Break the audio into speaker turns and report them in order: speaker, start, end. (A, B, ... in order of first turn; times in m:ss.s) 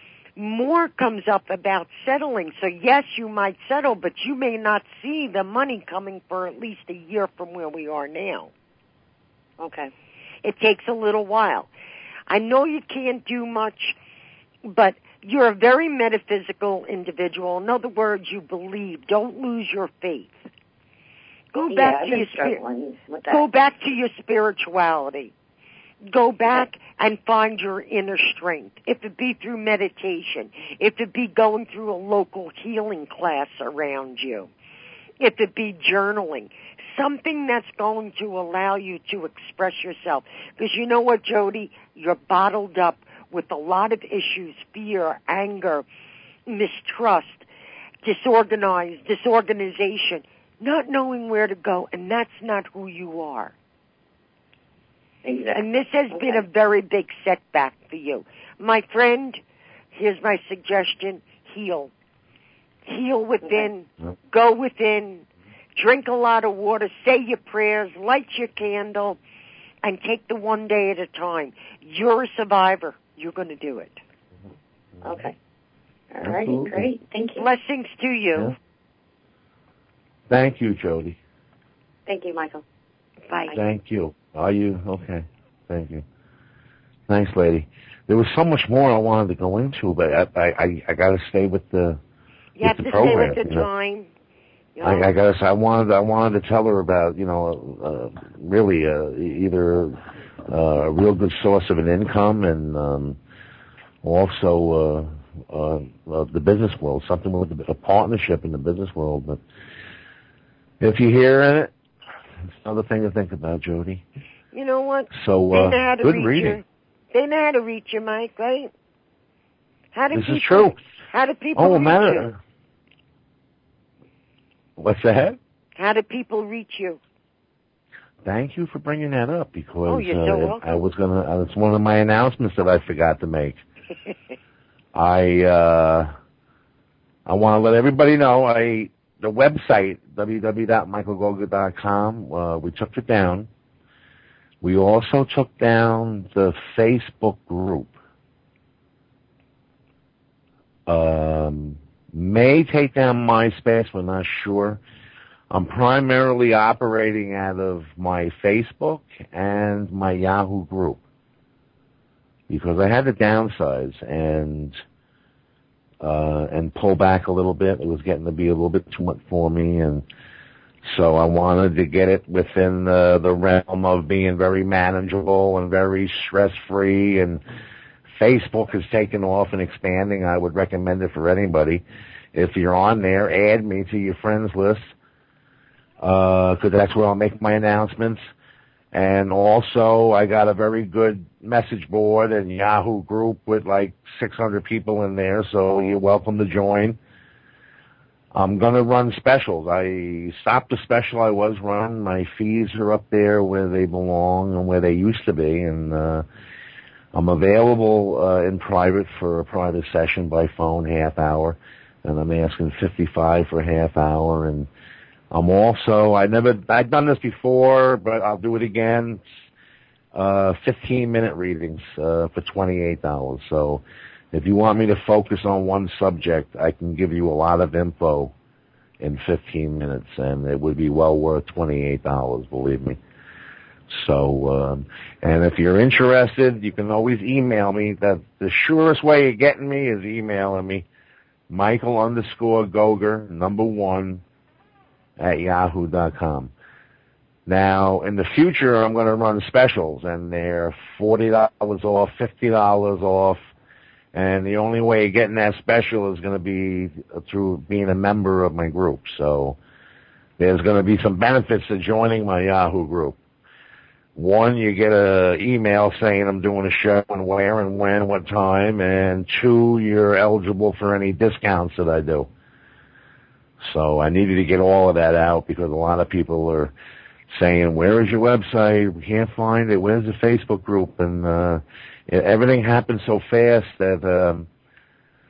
0:00.4-0:08.5 A
0:09.6-0:09.9 B
0:10.4-0:11.7 A
0:12.3-0:14.0 A
0:14.6-0:20.4 A
0:21.5-0:22.6 A
0:21.6-0:23.5 B
0:23.3-0:25.3 A
0:26.0-0:34.5 A
0:35.2-0:45.9 A
0:46.5-0:47.4 A
0:48.0-0:53.5 A
0:55.2-0:55.6 B
0:55.5-0:59.4 A
0:59.9-1:01.9 A
1:02.9-1:09.2 A
1:09.8-1:14.0 A
1:15.0-1:15.4 B
1:16.1-1:17.5 B
1:16.2-1:16.8 C
1:17.4-1:18.5 A
1:20.3-1:21.2 C
1:22.1-1:22.6 B
1:23.3-1:23.6 A
1:23.5-1:26.0 C
1:27.1-1:32.0 C
1:32.6-1:34.1 A
1:32.6-1:33.7 C
1:34.8-1:35.1 A
1:34.8-1:40.0 C
1:40.5-1:43.2 C
1:44.0-1:49.4 C
1:50.8-1:51.7 C
1:52.5-1:54.0 C
1:54.5-1:58.7 A
1:55.1-1:56.6 C
1:59.9-2:02.3 A
2:00.1-2:00.8 C
2:01.6-2:02.4 C
2:04.8-2:05.4 C
2:05.8-2:07.0 A
2:08.2-2:13.6 C
2:09.9-2:10.8 A
2:15.0-2:16.1 C
2:17.3-2:23.5 C
2:24.6-2:27.9 C
2:30.9-2:34.8 C
2:35.5-2:41.0 C
2:42.5-2:44.8 C
2:46.0-2:50.0 C
2:50.8-2:57.4 C
2:58.2-3:01.8 C
3:02.3-3:04.9 C
3:06.0-3:08.2 C
3:08.9-3:17.0 C
3:18.3-3:26.2 C
3:27.1-3:34.7 C
3:35.3-3:39.2 C
3:40.1-3:48.3 C
3:49.0-3:53.0 C
3:53.9-4:00.8 C
4:01.5-4:04.2 C
4:05.2-4:06.5 C
4:07.5-4:13.4 C
4:14.1-4:19.6 C
4:20.4-4:23.2 C
4:24.2-4:32.3 C
4:33.6-4:36.7 C
4:37.3-4:44.5 C